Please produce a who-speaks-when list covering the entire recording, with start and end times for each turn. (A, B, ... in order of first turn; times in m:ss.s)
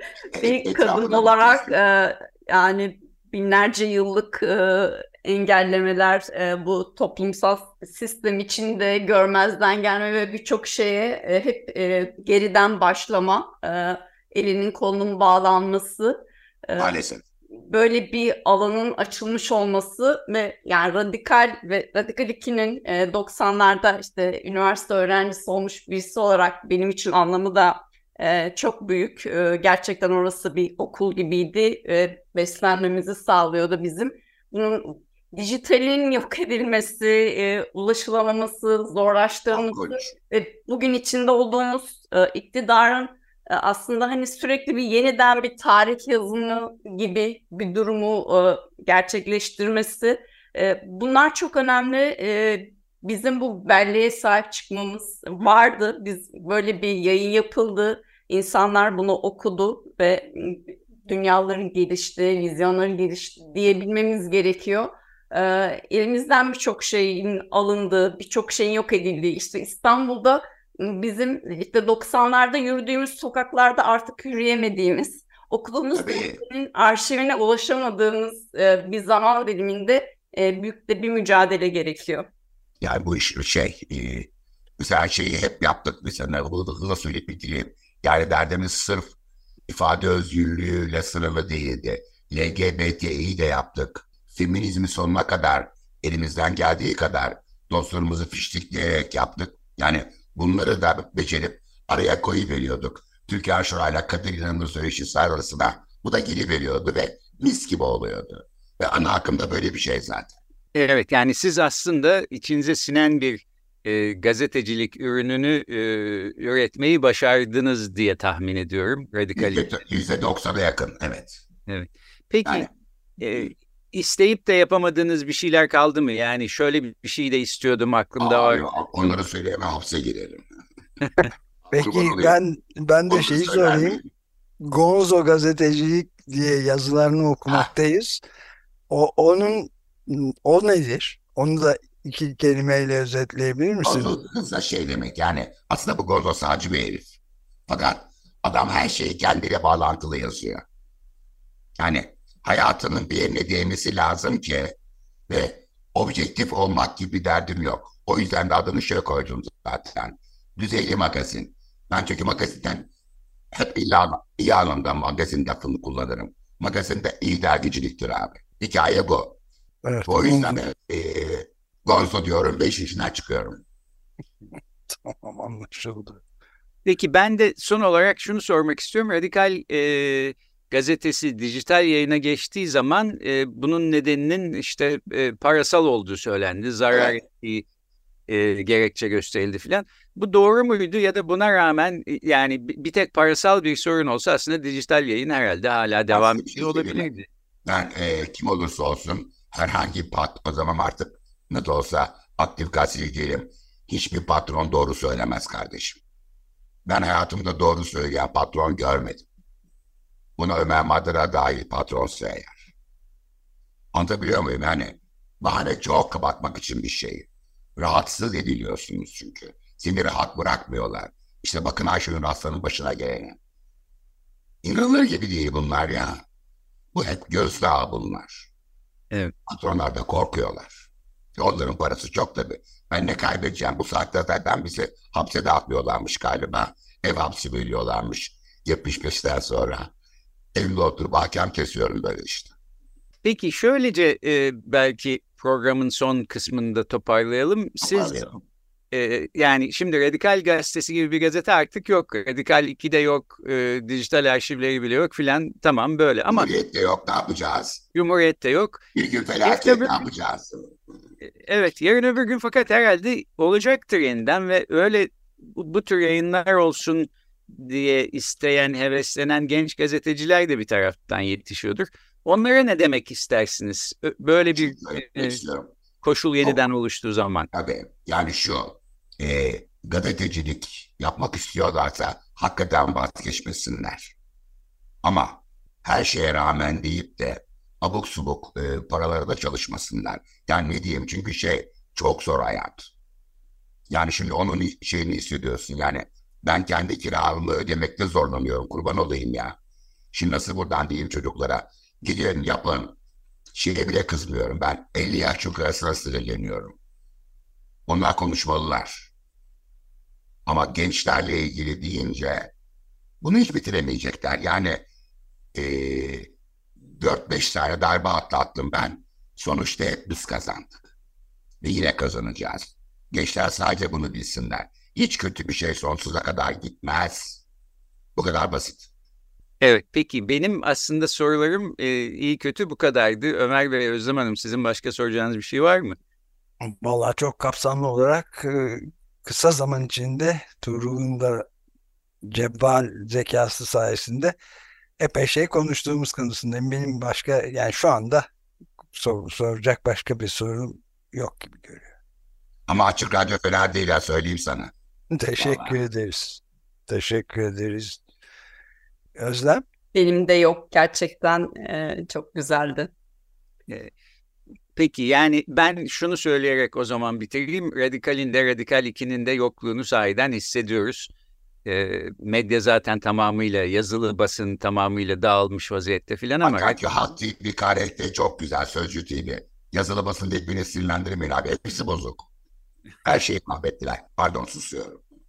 0:00.3-0:01.7 A
0:00.4-0:16.9 B
0:16.8-0:17.2 A
0:17.7-1:22.3 B
0:39.5-0:40.1 A
1:15.9-1:16.4 A
1:22.8-1:29.1 A
1:29.7-1:50.4 A
1:50.7-1:59.6 C
1:59.4-2:01.4 A
2:01.7-2:08.6 C
2:08.2-2:10.4 A
2:11.7-2:12.4 A
2:11.7-2:14.0 D
2:13.1-2:14.0 A
2:14.6-2:18.2 D
2:18.9-2:24.1 D
2:23.8-2:27.2 A
2:27.7-2:30.6 A
2:31.8-2:34.8 A
2:35.3-2:42.9 A
2:43.5-2:49.4 A
2:49.8-2:50.6 D
2:50.0-2:53.6 A
2:54.9-2:56.2 D
2:56.8-3:07.6 C
3:08.3-3:17.3 C
3:16.1-3:17.1 A
3:17.6-3:26.0 A
3:26.8-3:29.3 A
3:30.4-3:32.7 A
3:33.9-3:43.4 A
3:44.6-3:46.2 A
3:46.9-3:48.5 A
3:49.5-3:50.8 A
3:51.4-3:59.9 A
4:00.5-4:02.5 A
4:03.2-4:08.3 C
4:07.8-4:08.4 A
4:08.9-4:16.5 C
4:16.3-4:17.8 A
4:17.9-4:18.8 C
4:18.9-4:20.7 A
4:19.4-4:19.9 C
4:21.2-4:35.4 C
4:34.6-4:35.7 A
4:36.0-4:37.5 C
4:37.5-4:44.1 A
4:45.0-4:52.9 A
4:53.9-4:59.6 A
5:00.1-5:03.0 A
5:03.5-5:06.8 A
5:07.9-5:09.1 A
5:10.4-5:12.5 A
5:13.2-5:14.8 A
5:15.5-5:16.3 A
5:16.9-5:20.9 A
5:21.6-5:27.4 A
5:28.2-5:28.9 A
5:29.6-5:36.0 C
5:36.6-5:41.4 D
5:42.2-5:44.3 D
5:45.0-5:48.2 D
5:48.9-5:51.9 D
5:52.7-5:54.7 A
5:55.1-5:58.0 D
5:55.4-5:55.8 A
5:59.2-5:59.6 D
5:59.9-6:02.9 B
6:04.7-6:11.1 C
6:11.6-6:16.8 C
6:16.4-6:22.3 A
6:23.0-6:25.0 A